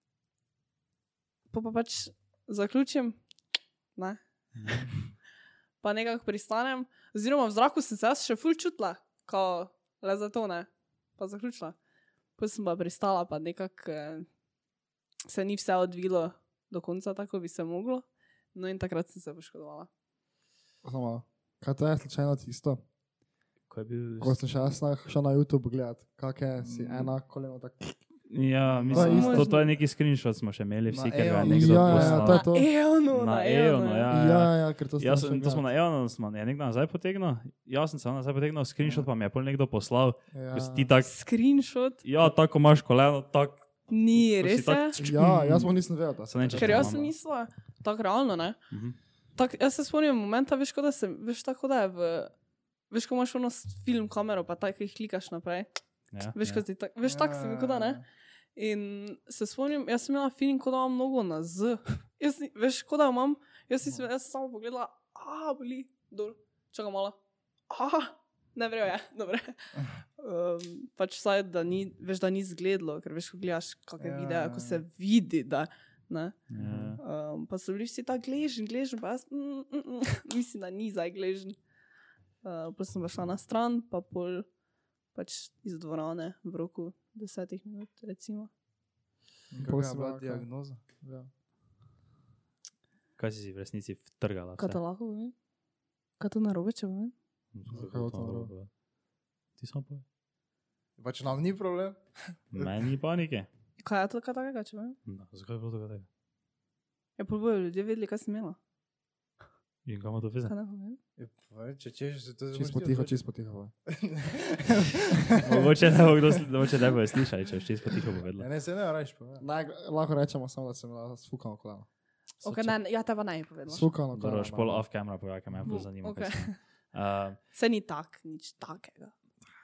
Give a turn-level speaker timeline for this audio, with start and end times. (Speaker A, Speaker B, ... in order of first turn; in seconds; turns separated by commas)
Speaker A: 1.5-3.2, Speaker A: 4.0-4.8, Speaker A: 5.8-11.8, Speaker A: 12.4-14.2, Speaker A: 15.3-19.9, Speaker B: 20.8-22.8, Speaker C: 23.7-24.4, Speaker B: 24.2-28.0, Speaker D: 26.6-27.1, Speaker C: 28.3-32.5, Speaker D: 28.8-29.1, Speaker B: 28.9-29.5, Speaker A: 28.9-29.7, Speaker D: 30.9-32.3, Speaker B: 31.4-32.7, Speaker A: 32.2-34.1, Speaker C: 33.1-41.1, Speaker B: 34.1-35.6, Speaker B: 40.3-40.9, Speaker A: 41.0-42.0, Speaker C: 42.0-47.1, Speaker A: 43.9-45.0, Speaker B: 45.0-47.0, Speaker A: 46.6-48.6, Speaker C: 48.7-49.0, Speaker A: 49.4-52.3, Speaker A: 52.9-55.7, Speaker C: 56.1-56.6, Speaker A: 56.3-58.0, Speaker D: 57.0-58.0, Speaker A: 58.5-67.2, Speaker A: 67.7-76.4, Speaker D: 74.0-74.8, Speaker C: 76.5-77.0, Speaker B: 76.6-76.9, Speaker A: 76.9-81.6, Speaker A: 82.4-84.5, Speaker A: 85.1-88.5, Speaker D: 89.5-90.8, Speaker B: 89.6-90.5, Speaker B: 91.0-91.3, Speaker C: 93.2-94.8, Speaker A: 94.6-95.3, Speaker A: 96.2-97.1, Speaker C: 97.5-98.7, Speaker B: 97.7-98.5, Speaker C: 99.6-100.0, Speaker D: 101.0-102.0, Speaker C: 102.5-103.5, Speaker A: 103.8-105.0, Speaker C: 105.0-106.1, Speaker A: 107.2-108.6, Speaker C: 109.8-110.5, Speaker A: 110.5-111.0, Speaker D: 111.2-113.2, Speaker B: 112.5-113.7, Speaker D: 113.9-116.0, Speaker C: 115.4-118.5, Speaker D: 118.4-119.5, Speaker B: 119.4-121.9, Speaker A: 122.4-123.9, Speaker C: 122.4-122.7, Speaker B: 123.7-124.8, Speaker C: 124.1-127.4, Speaker A: 125.7-126.6, Speaker A: 127.5-129.1